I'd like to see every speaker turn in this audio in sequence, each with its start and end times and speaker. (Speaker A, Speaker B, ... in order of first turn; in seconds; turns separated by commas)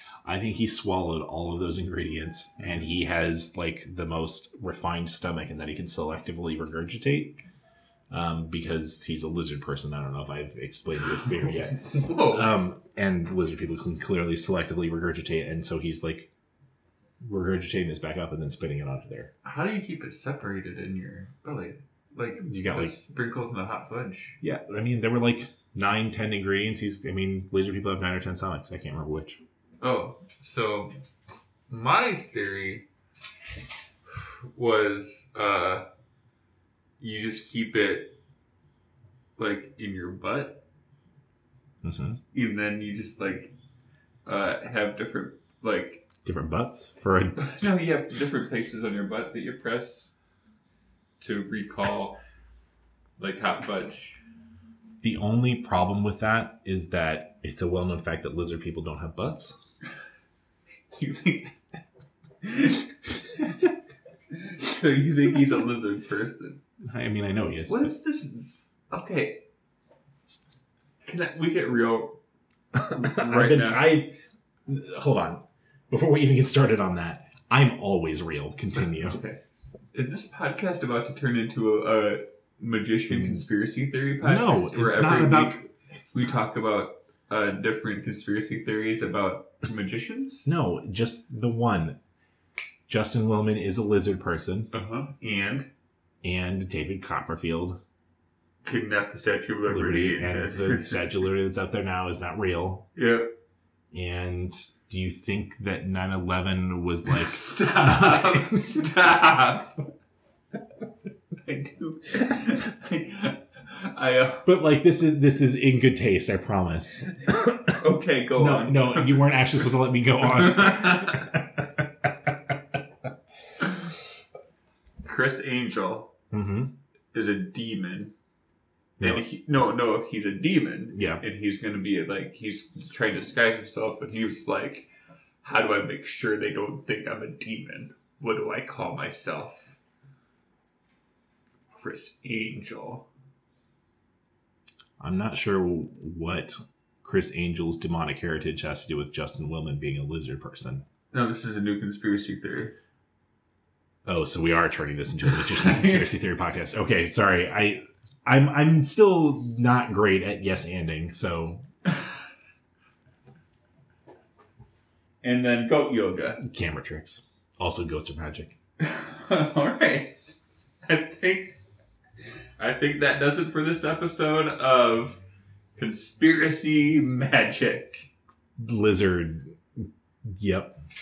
Speaker A: 0.2-7.4, Speaker A: 8.1-16.3, Speaker B: 11.8-12.5, Speaker A: 17.2-19.3, Speaker B: 19.4-24.4, Speaker A: 22.4-23.0, Speaker A: 24.4-29.4, Speaker B: 29.8-30.9, Speaker B: 31.7-32.9, Speaker B: 34.1-35.9, Speaker B: 37.0-38.1, Speaker B: 39.4-40.6, Speaker A: 41.8-42.2, Speaker B: 42.3-43.5, Speaker B: 44.3-46.0, Speaker A: 46.2-47.7, Speaker B: 47.5-50.1, Speaker B: 51.2-52.2, Speaker B: 53.2-54.2, Speaker A: 55.0-59.6, Speaker B: 60.9-61.6, Speaker B: 62.4-63.7, Speaker B: 64.3-66.6, Speaker A: 66.8-67.9, Speaker B: 67.7-69.4, Speaker B: 71.0-72.2, Speaker A: 72.8-74.2, Speaker B: 72.9-74.0, Speaker A: 74.7-79.2, Speaker B: 78.9-79.4, Speaker B: 79.9-90.5, Speaker A: 83.1-83.4, Speaker A: 84.2-85.6, Speaker A: 90.5-92.0, Speaker A: 92.9-94.7, Speaker B: 94.7-95.7, Speaker A: 96.2-97.8, Speaker B: 98.7-101.1, Speaker A: 99.7-102.9, Speaker B: 103.0-103.3, Speaker A: 103.9-108.9, Speaker B: 107.1-109.9, Speaker B: 111.5-114.5, Speaker A: 114.5-117.8, Speaker B: 117.5-119.4, Speaker A: 118.4-121.7, Speaker B: 120.2-121.3, Speaker B: 125.0-126.1, Speaker A: 126.3-126.7, Speaker B: 127.1-128.1, Speaker B: 129.0-134.9, Speaker A: 130.9-131.2, Speaker B: 135.4-139.8, Speaker B: 141.8-143.1, Speaker A: 145.0-150.8, Speaker B: 151.1-152.8, Speaker A: 154.1-161.6, Speaker B: 155.5-156.1, Speaker B: 165.2-166.4, Speaker A: 166.4-168.5, Speaker B: 168.8-170.2, Speaker B: 170.8-171.6, Speaker B: 172.6-175.2, Speaker B: 175.8-178.1, Speaker A: 178.6-180.8